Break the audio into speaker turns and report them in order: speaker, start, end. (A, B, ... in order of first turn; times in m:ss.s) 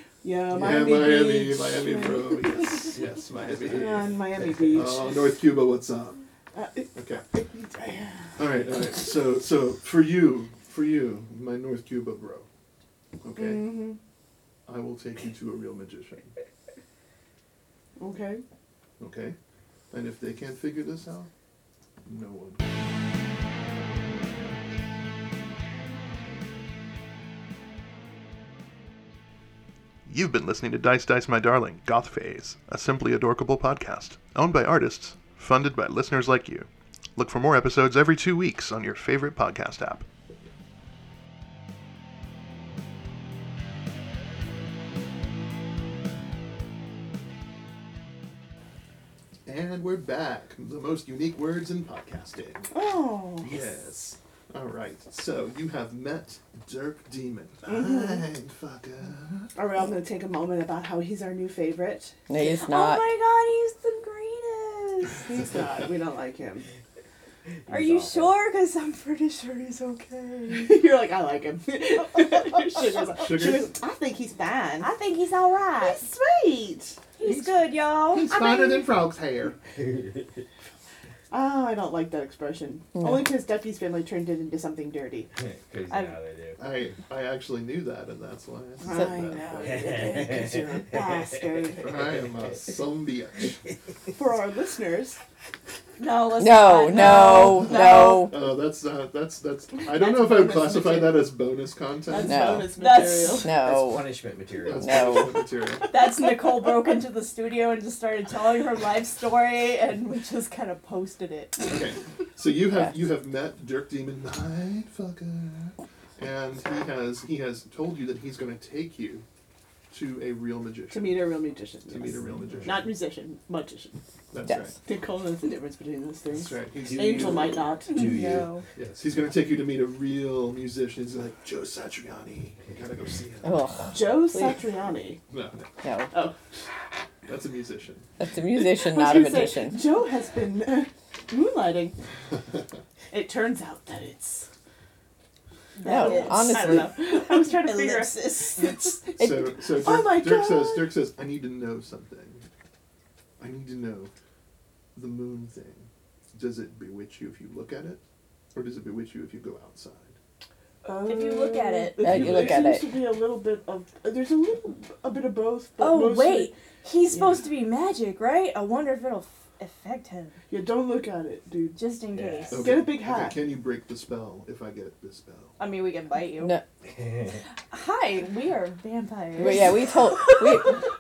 0:00.2-0:02.8 A
0:00.5-0:06.2 B
0:03.7-0:05.0 A
0:04.5-0:04.8 C
0:06.5-0:08.4 A
0:06.9-0:07.2 B
0:08.4-0:12.5 B
0:13.2-0:13.7 B
0:13.4-0:14.0 A
0:14.7-0:16.3 B
0:18.0-0:18.4 A
0:19.0-0:19.4 B
0:19.9-0:21.3 B
0:22.0-0:22.6 B
0:30.1-0:40.0 B
0:49.5-0:52.7 B
0:52.7-0:53.6 A
0:53.4-0:59.5 B
0:57.7-0:58.2 A
0:59.6-1:02.2 A
1:02.3-1:03.1 D
1:02.4-1:05.3 E
1:05.2-1:06.7 A
1:07.7-1:08.4 C
1:07.7-1:10.8 E
1:10.6-1:14.9 A
1:13.0-1:13.7 B
1:14.8-1:16.0 E
1:15.8-1:17.0 A
1:17.2-1:18.9 E
1:17.2-1:19.6 B
1:19.8-1:20.4 C
1:21.3-1:25.3 A
1:23.0-1:23.3 D
1:25.4-1:26.6 C
1:25.9-1:26.2 E
1:26.6-1:30.2 B
1:28.8-1:32.0 A
1:29.6-1:32.7 C
1:31.8-1:33.6 B
1:34.2-1:35.2 A
1:36.0-1:38.3 E
1:36.4-1:38.4 D
1:37.3-1:42.6 B
1:39.8-1:41.3 A
1:42.1-1:43.6 A
1:42.2-1:44.1 D
1:42.8-1:43.5 E
1:43.5-1:45.2 C
1:44.6-1:45.9 B
1:44.7-1:45.4 D
1:45.9-1:51.6 E
1:51.7-1:59.2 B
1:59.9-2:01.3 B
2:00.9-2:04.0 A
2:01.9-2:02.9 B
2:04.3-2:04.8 B
2:04.5-2:04.8 D
2:04.8-2:08.3 A
2:06.3-2:07.6 B
2:06.8-2:08.5 C
2:07.9-2:08.6 E
2:08.8-2:13.7 B
2:13.4-2:14.6 D
2:13.9-2:15.2 A
2:15.3-2:15.8 B
2:15.8-2:16.1 D
2:17.3-2:18.1 B
2:18.2-2:19.8 D
2:18.6-2:22.0 A
2:23.1-2:24.5 A
2:25.8-2:28.8 E
2:25.8-2:26.9 D
2:25.8-2:30.9 A
2:29.2-2:32.5 B
2:33.4-2:34.1 B
2:35.0-2:38.0 B
2:38.5-2:40.2 B
2:40.8-2:46.5 A
2:41.0-2:42.4 E
2:42.0-2:42.9 D
2:45.8-2:50.4 E
2:50.5-2:51.8 A
2:51.8-2:52.7 E
2:52.1-2:52.6 C
2:52.5-2:55.6 B
2:52.5-2:53.4 A
2:55.6-2:56.6 E
2:56.4-2:56.6 D
2:56.9-2:57.4 C
2:57.7-3:00.2 E
2:59.4-3:00.8 D